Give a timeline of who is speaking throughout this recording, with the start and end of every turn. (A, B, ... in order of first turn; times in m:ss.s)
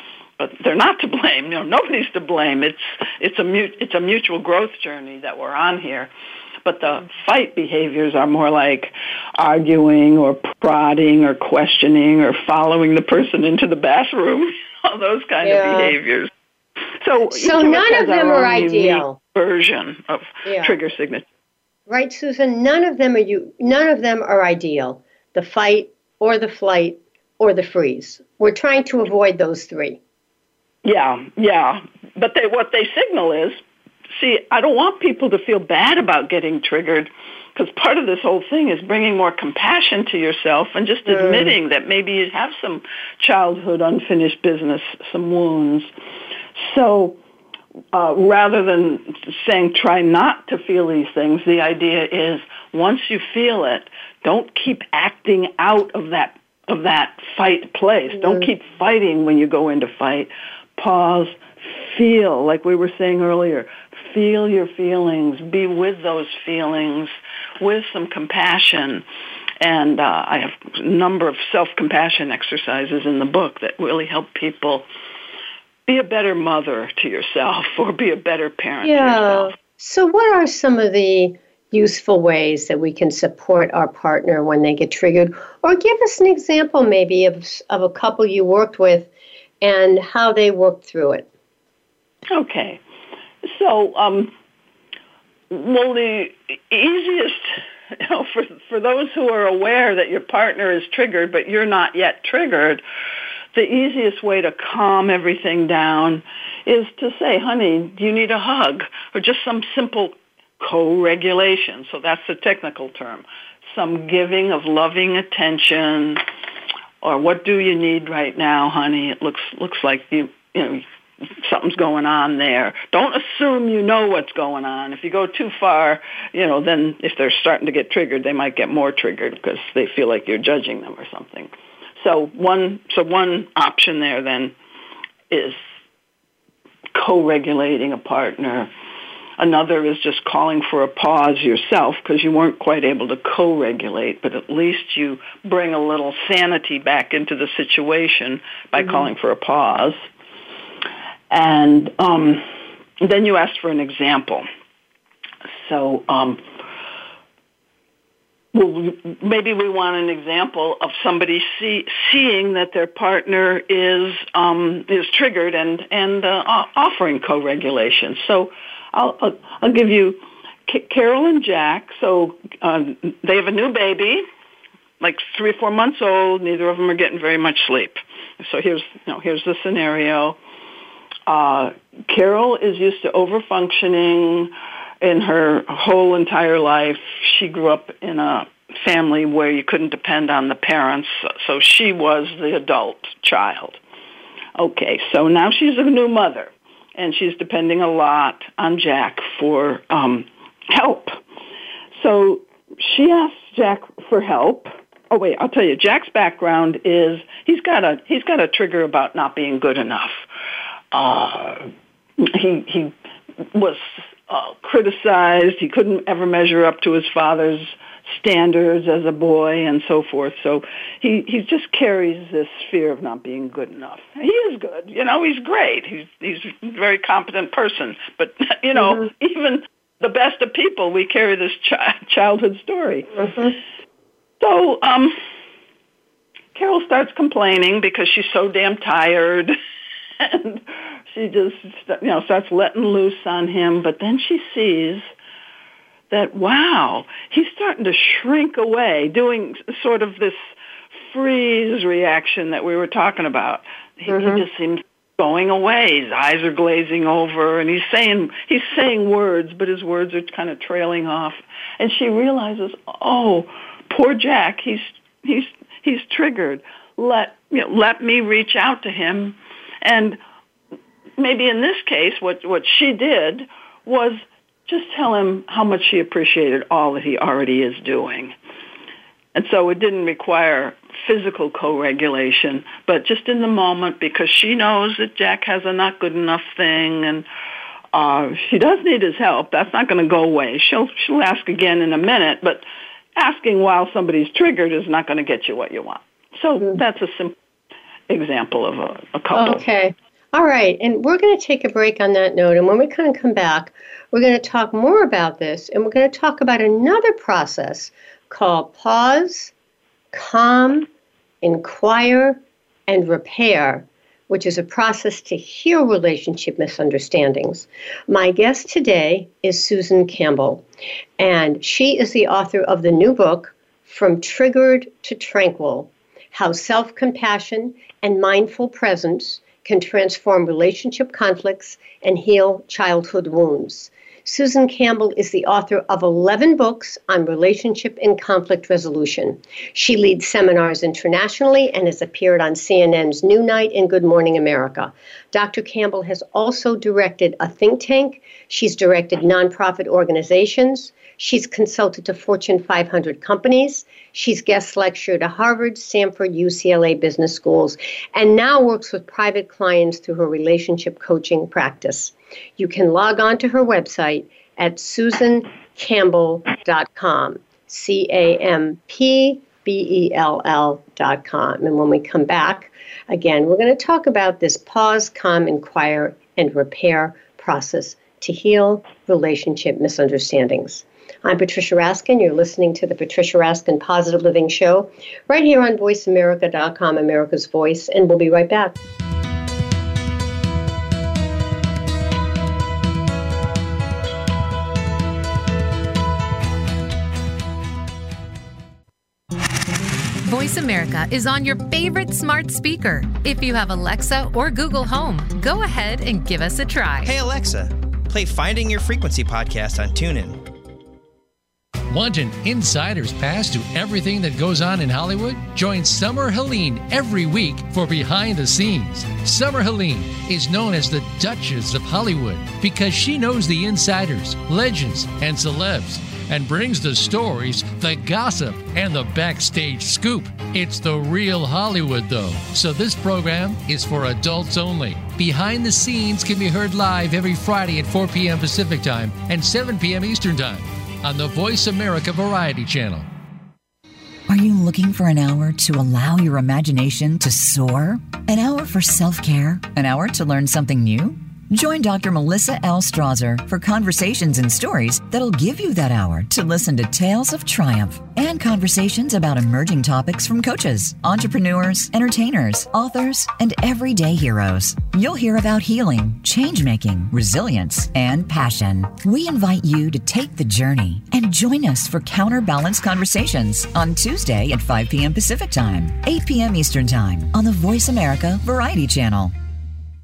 0:00.4-0:06.1 A
0:06.6-0:16.3 A
0:15.4-0:16.0 B
0:17.0-0:21.2 A
0:17.3-0:19.2 B
0:20.5-0:20.8 B
0:21.9-0:30.0 B
0:30.8-0:33.6 A
0:34.1-0:45.9 A
0:41.1-0:41.6 B
0:46.6-0:47.2 A
0:47.9-1:09.0 A
0:58.1-0:58.5 B
1:09.6-1:14.9 A
1:15.9-1:19.5 A
1:18.8-1:29.1 B
1:29.6-1:31.3 B
1:32.3-1:32.8 A
1:33.4-1:34.3 A
1:35.5-1:42.8 A
1:43.5-1:56.2 A
1:57.0-2:00.8 A
2:01.4-2:14.6 A
2:15.3-2:15.6 A
2:16.9-2:18.7 A
2:19.4-2:30.0 A
2:28.8-2:29.1 B
2:31.3-2:32.5 A
2:33.0-2:34.5 A
2:35.5-2:36.4 A
2:38.5-2:54.2 A
2:55.0-3:00.4 A
3:01.3-3:13.8 A
3:14.6-3:21.2 A
3:22.0-3:30.3 A
3:30.9-3:31.7 A
3:32.2-3:32.9 A
3:33.5-3:53.1 A
3:48.8-3:49.0 B
3:53.2-3:53.6 B
3:54.4-3:55.1 A
3:56.6-3:59.6 A
4:00.2-4:05.1 A
4:06.1-4:10.5 A
4:11.1-4:30.2 A
4:14.1-4:14.4 B
4:31.2-4:38.4 A
4:39.4-4:47.3 A
4:47.9-4:57.4 A
4:58.1-4:59.6 A
4:59.3-5:09.5 B
5:10.1-5:10.9 B
5:11.4-5:20.6 B
5:21.2-6:28.8 B
6:40.2-6:47.2 C
6:47.0-6:50.4 D
6:51.9-7:23.1 E
7:24.3-7:59.4 F